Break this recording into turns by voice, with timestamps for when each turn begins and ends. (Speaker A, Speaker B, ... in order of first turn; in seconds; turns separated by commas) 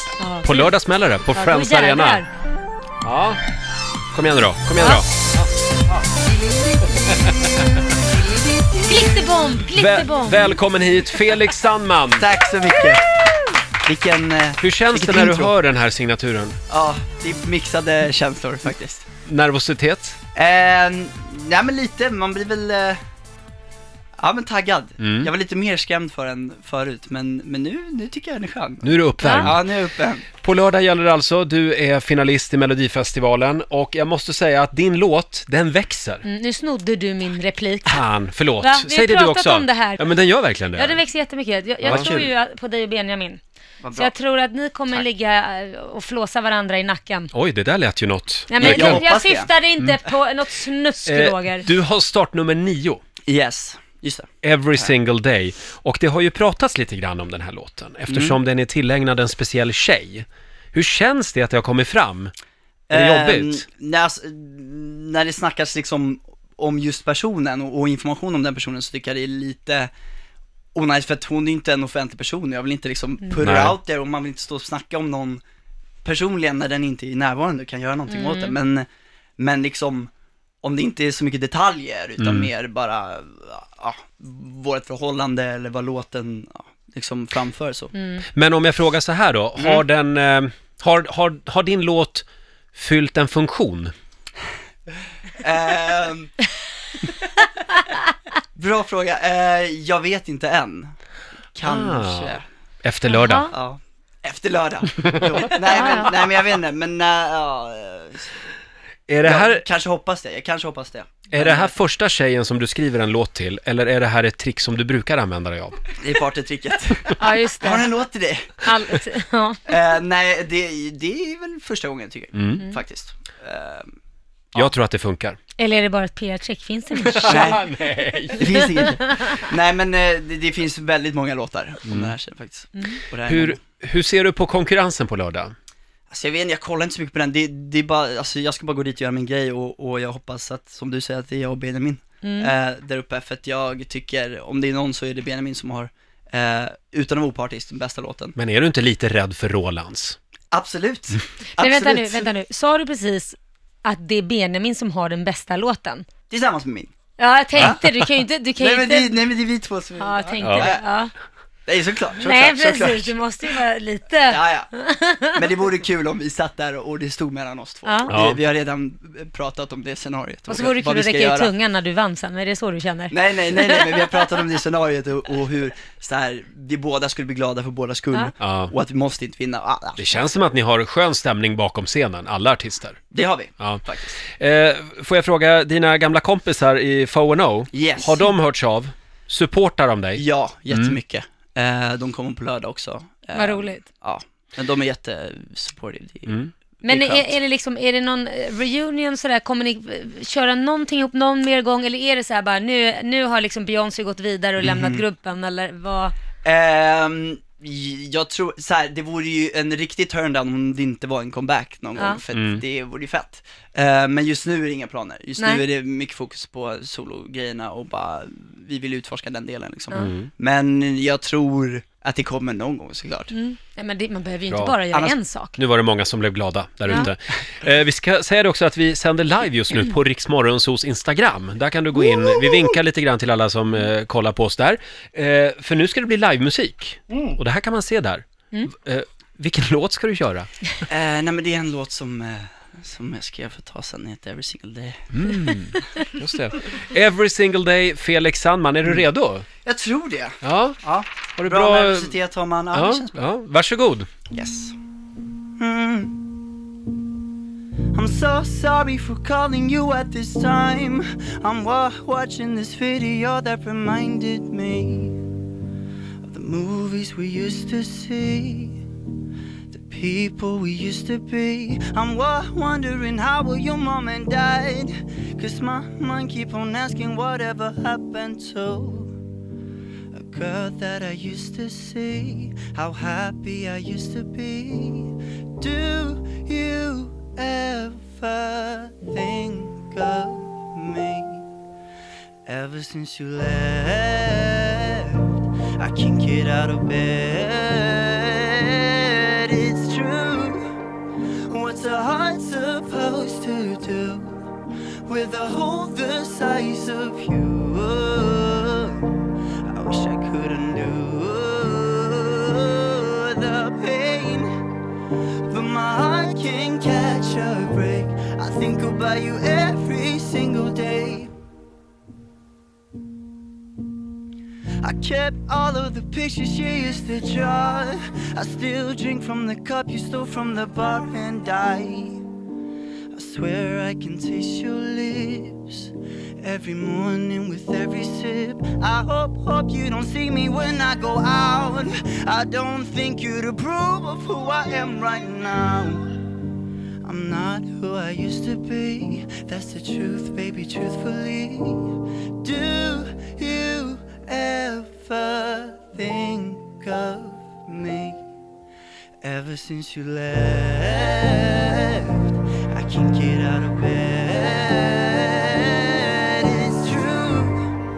Speaker A: 0.2-0.7, Speaker B: 0.4-2.2, Speaker A: 1.3-2.3, Speaker B: 3.0-3.4, Speaker B: 4.1-5.1, Speaker A: 4.8-5.0, Speaker C: 6.1-9.4, Speaker A: 8.9-10.6, Speaker B: 9.7-12.3, Speaker C: 12.1-13.1, Speaker C: 13.8-15.5, Speaker B: 14.6-16.6, Speaker C: 16.7-19.1, Speaker B: 19.2-20.2, Speaker C: 20.3-23.0, Speaker C: 24.2-30.2, Speaker B: 25.0-25.3, Speaker B: 28.8-29.6, Speaker A: 29.2-29.5, Speaker B: 30.4-36.2, Speaker A: 36.2-38.0, Speaker B: 37.9-41.0, Speaker A: 38.6-43.4, Speaker B: 41.8-42.3, Speaker C: 41.8-42.3, Speaker C: 43.8-44.1, Speaker A: 43.9-47.3, Speaker B: 47.3-49.0, Speaker A: 48.5-51.7, Speaker C: 48.6-49.5, Speaker B: 51.0-53.0, Speaker C: 53.3-54.9, Speaker B: 54.4-62.3, Speaker C: 58.1-58.4, Speaker C: 62.9-69.9, Speaker B: 62.9-63.6, Speaker C: 70.7-75.4, Speaker B: 73.4-73.8, Speaker C: 76.0-78.9, Speaker A: 78.1-78.5, Speaker C: 79.4-80.1, Speaker C: 80.6-87.9, Speaker B: 82.2-82.5, Speaker A: 87.9-88.2, Speaker B: 88.3-93.9, Speaker C: 89.6-89.8, Speaker C: 95.4-96.3, Speaker C: 98.5-100.9, Speaker C: 101.5-102.4, Speaker B: 101.6-103.5, Speaker A: 103.1-103.5, Speaker C: 103.5-108.4, Speaker A: 105.6-106.1, Speaker B: 109.1-109.6, Speaker C: 109.2-111.8, Speaker B: 111.3-115.8, Speaker C: 116.0-118.7, Speaker A: 117.2-117.9, Speaker A: 118.6-119.6, Speaker C: 119.7-123.9, Speaker B: 122.3-122.6, Speaker B: 124.5-125.4, Speaker A: 125.6-127.5, Speaker B: 127.0-128.6, Speaker C: 127.2-127.6, Speaker C: 128.3-133.6, Speaker A: 128.4-129.3, Speaker B: 131.8-132.1, Speaker A: 132.7-133.0, Speaker B: 133.2-135.5, Speaker C: 136.1-148.3, Speaker A: 142.2-142.5, Speaker B: 148.3-150.2, Speaker C: 150.5-152.3, Speaker A: 151.6-156.0, Speaker C: 156.3-156.9, Speaker A: 157.2-159.1, Speaker C: 158.6-160.8, Speaker A: 160.0-161.1, Speaker B: 160.4-160.7, Speaker C: 161.7-163.2, Speaker A: 162.2-165.4, Speaker C: 164.2-164.7, Speaker C: 165.3-171.5, Speaker A: 167.8-168.1, Speaker B: 168.1-168.4, Speaker A: 170.5-174.1, Speaker C: 173.1-180.2, Speaker B: 178.4-178.7, Speaker B: 180.0-183.0, Speaker C: 183.1-184.2, Speaker B: 183.6-191.0, Speaker C: 187.7-188.2, Speaker C: 190.2-197.4, Speaker A: 193.3-193.8, Speaker A: 196.8-206.1, Speaker C: 204.6-205.0, Speaker C: 206.4-223.3, Speaker B: 212.3-212.6, Speaker A: 215.4-215.7, Speaker B: 219.9-220.3, Speaker A: 223.3-225.6, Speaker B: 224.5-224.8, Speaker C: 224.9-225.2, Speaker B: 225.6-240.5, Speaker C: 232.0-232.8, Speaker C: 240.9-245.5, Speaker B: 245.1-249.4, Speaker C: 249.6-253.2, Speaker B: 250.4-250.8, Speaker B: 251.4-252.2, Speaker B: 252.7-254.1, Speaker C: 254.3-254.7, Speaker C: 255.6-256.2, Speaker C: 257.9-265.2, Speaker C: 266.2-268.8, Speaker C: 269.7-279.1, Speaker C: 280.1-291.5, Speaker C: 292.4-300.7, Speaker C: 301.5-304.5, Speaker C: 305.1-314.5, Speaker C: 315.5-321.3, Speaker C: 324.8-332.2, Speaker C: 333.1-346.1, Speaker C: 347.0-358.2, Speaker C: 359.2-367.8